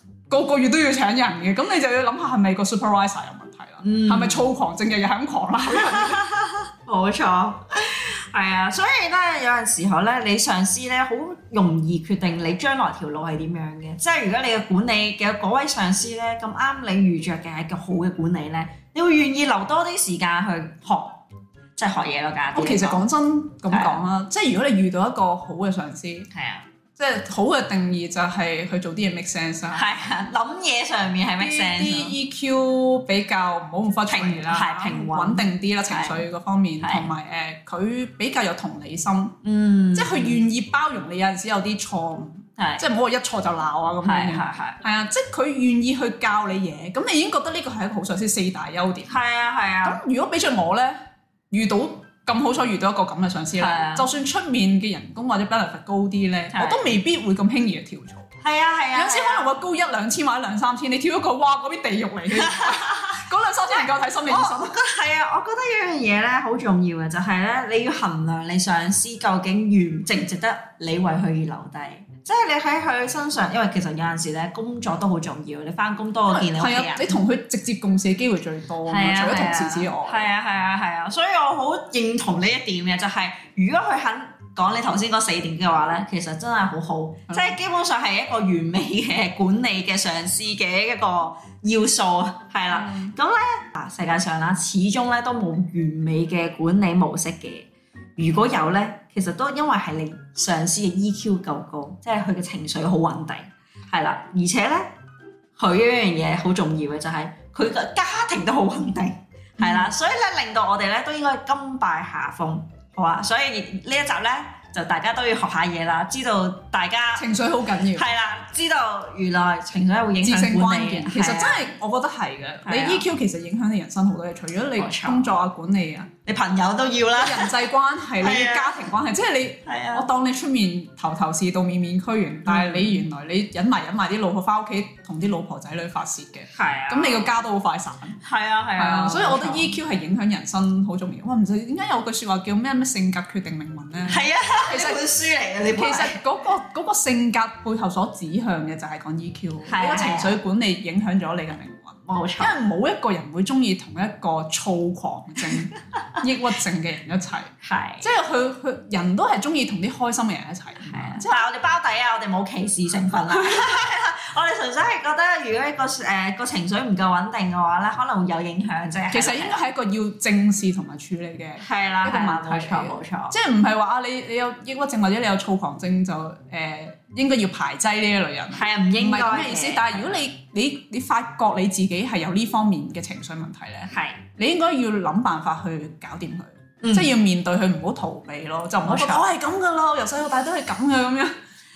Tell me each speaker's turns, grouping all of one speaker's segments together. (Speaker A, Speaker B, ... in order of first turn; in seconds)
Speaker A: 0.3-6.2, 22.5-26.3, 27.0-29.9, 31.4-39.4, 39.9-49.1, 49.8-51.0, 51.5-58.2, 58.9-64.7, 76.3-80.2, 87.3-87.5, 92.7-93.1, 109.6-109.9, 117.2-118.0, 120.2-126.1, 127.2-138.2, 138.8-145.0, 145.7-157.5, 158.0-161.4, 169.1-191.3
Speaker B: 3.8-4.5, 5.7-21.2, 21.8-23.0, 23.7-24.0, 26.3-26.6, 29.7-32.1, 34.1-36.2, 36.8-37.1, 39.4-40.4, 42.6-42.9, 44.0-44.8, 49.1-50.0, 53.5-54.1, 56.5-56.9, 58.4-59.5, 62.4-77.2, 78.8-104.9, 105.5-117.3, 117.9-121.7, 122.6-123.1, 124.8-125.3, 126.2-127.5, 128.2-128.8, 129.6-130.1, 132.4-133.0, 136.5-137.3, 138.2-139.7, 144.1-146.2, 149.7-150.4, 152.1-152.6, 157.6-158.1, 160.8-169.6, 171.6-173.3, 178.5-180.2, 183.9-184.2, 186.8-187.1, 188.8-189.3